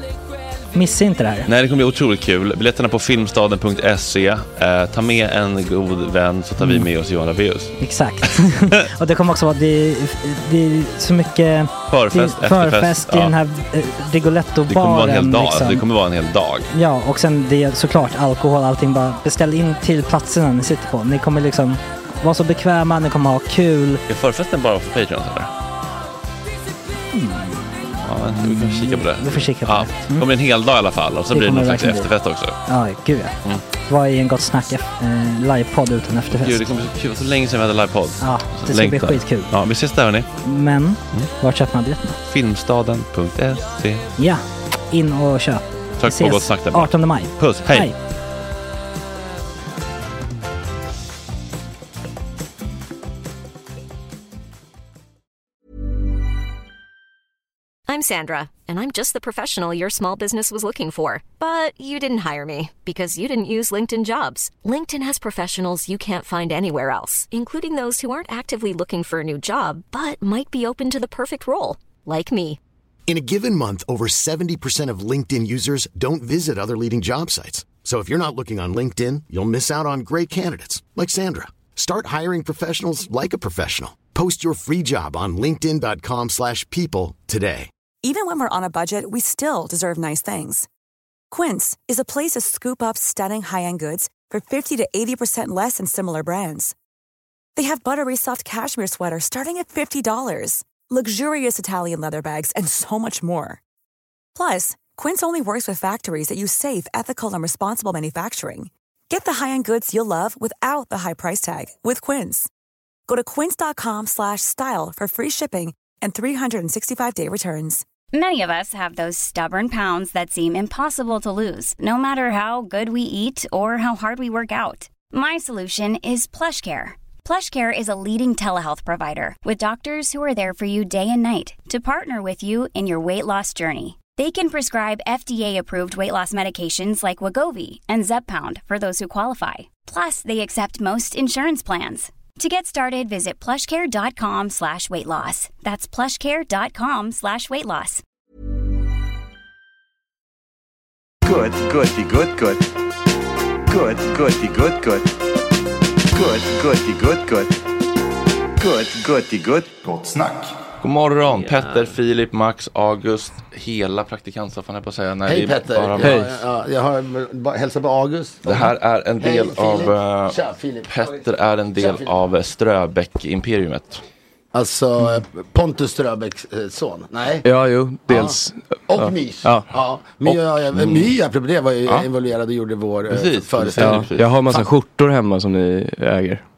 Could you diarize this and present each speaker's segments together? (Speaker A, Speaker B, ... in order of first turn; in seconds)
Speaker A: 0.7-1.5, 7.8-15.8, 16.7-24.0, 27.1-30.3, 31.3-32.1, 32.7-36.7, 38.2-39.5, 40.4-42.2, 44.2-48.0
Speaker B: 1.5-8.3, 11.9-13.3, 14.7-16.7, 24.1-25.5, 28.0-32.6, 36.3-40.3, 42.3-44.0, 46.0-47.9, 160.8-166.2, 168.4-174.0, 183.1-184.4
Speaker C: 57.9-72.6
Speaker D: 73.1-87.7
Speaker E: 88.0-90.7, 91.3-96.8, 97.6-103.6, 104.3-112.5, 113.1-117.8
Speaker F: 118.1-148.0
Speaker G: 151.2-152.7, 153.7-155.1, 156.1-157.5, 158.6-160.3
Speaker H: 165.2-170.9, 171.8-172.1, 174.5-177.5, 178.1-178.4, 178.9-184.1
Speaker I: 166.0-166.3, 177.4-179.7, 183.8-186.4